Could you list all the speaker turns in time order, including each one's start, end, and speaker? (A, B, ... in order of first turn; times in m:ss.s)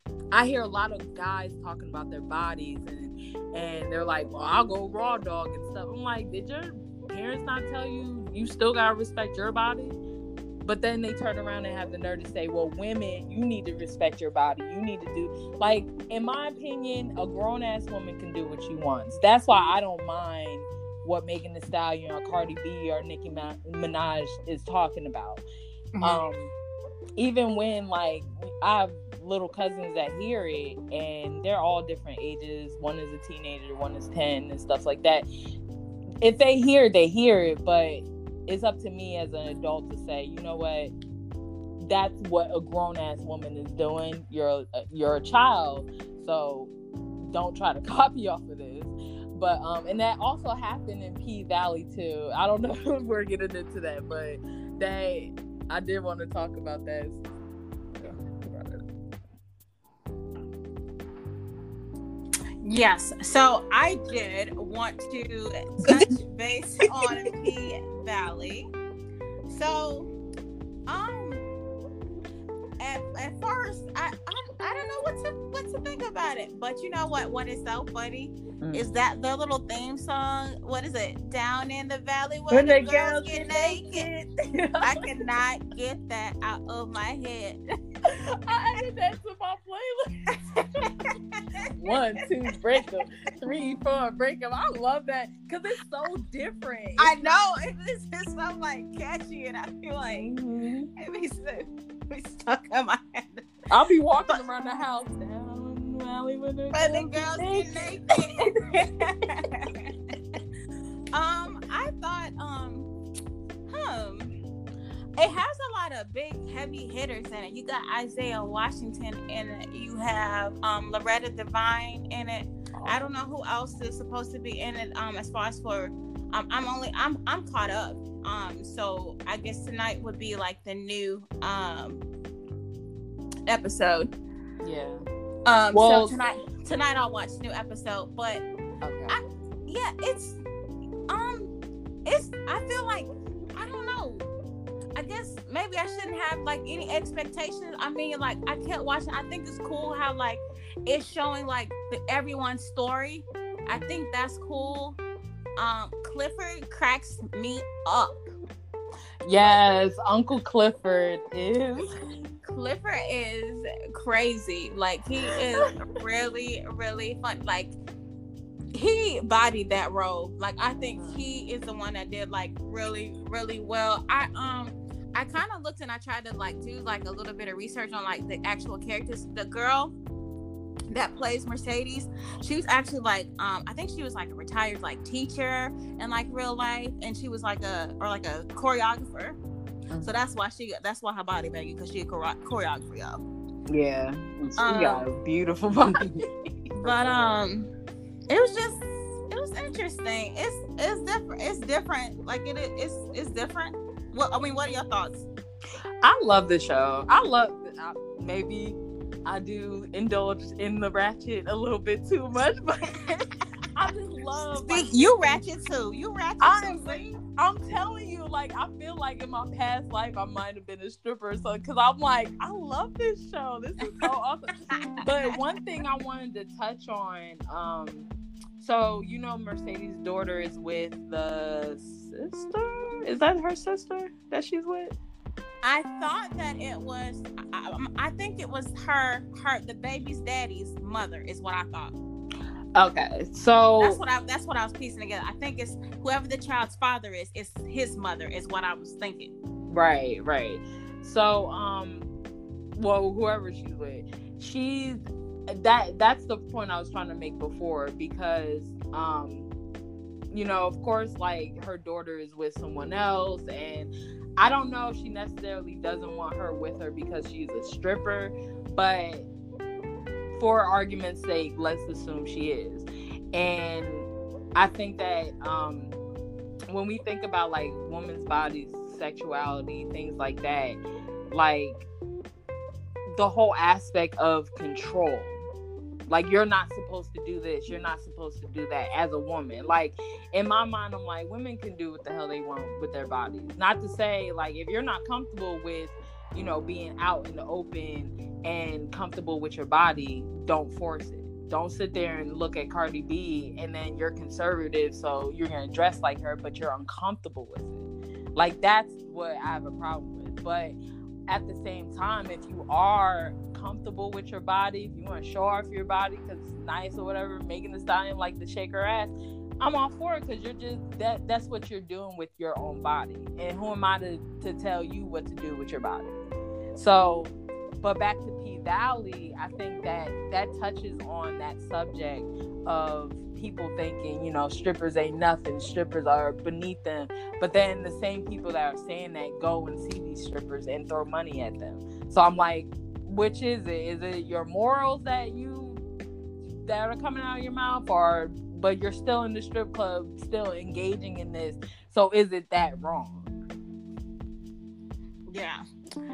0:00.3-0:10.0 A
0:10.6-0:25.4 A
0:25.9-0:26.2 B
0:26.0-0:26.5 A
0:27.2-0:35.2 A
0:36.2-0:40.9 A
0:41.8-0:57.2 A
0:57.9-0:58.8 A
1:02.6-1:08.7 B
1:09.5-1:10.1 B
1:10.9-1:11.4 B
1:12.8-1:24.1 B
1:18.6-1:18.9 A
1:22.5-1:25.1 A
1:24.8-1:27.6 B
1:28.0-1:30.9 A
1:30.8-1:31.7 B
1:31.7-1:37.2 A
1:37.0-1:40.3 B
1:40.1-1:40.9 A
1:41.0-1:43.5 B
1:43.7-1:47.9 A
1:46.7-1:49.9 B
1:48.4-1:49.1 A
1:51.1-1:52.9 B
1:53.7-1:54.4 B
1:55.2-2:12.0 B
2:13.5-2:14.1 B
2:14.6-2:15.1 A
2:15.5-2:18.4 B
2:15.7-2:16.2 A
2:18.8-2:19.2 A
2:19.1-2:20.4 B
2:21.1-2:21.5 B
2:22.1-2:24.3 B
2:25.0-2:35.0 B
2:33.7-2:34.0 A
2:35.6-2:38.3 B
2:39.2-2:41.9 A
2:42.4-2:47.8 B
2:45.3-2:45.7 A
2:48.7-2:59.9 B
2:51.0-2:51.2 A
3:00.9-3:09.4 B
3:10.0-3:13.2 B
3:13.7-3:17.4 A
3:14.6-3:15.1 B
3:16.8-3:17.7 B
3:18.3-3:25.3 B
3:26.0-3:32.9 A
3:32.9-3:33.2 B
3:33.8-3:35.4 A
3:34.7-3:37.2 B
3:36.4-3:55.0 A
3:55.6-4:01.9 B
4:02.8-4:04.0 A
4:03.8-4:09.3 B
4:09.7-4:12.1 A
4:12.8-4:19.5 A
4:20.3-4:29.3 A
4:30.4-4:36.0 A
4:36.7-4:41.9 A
4:43.1-4:45.4 A
4:46.1-5:07.8 A
5:08.4-5:10.8 A
5:11.3-5:26.1 A
5:26.8-5:45.8 A
5:46.6-5:53.3 A
5:55.3-5:55.6 B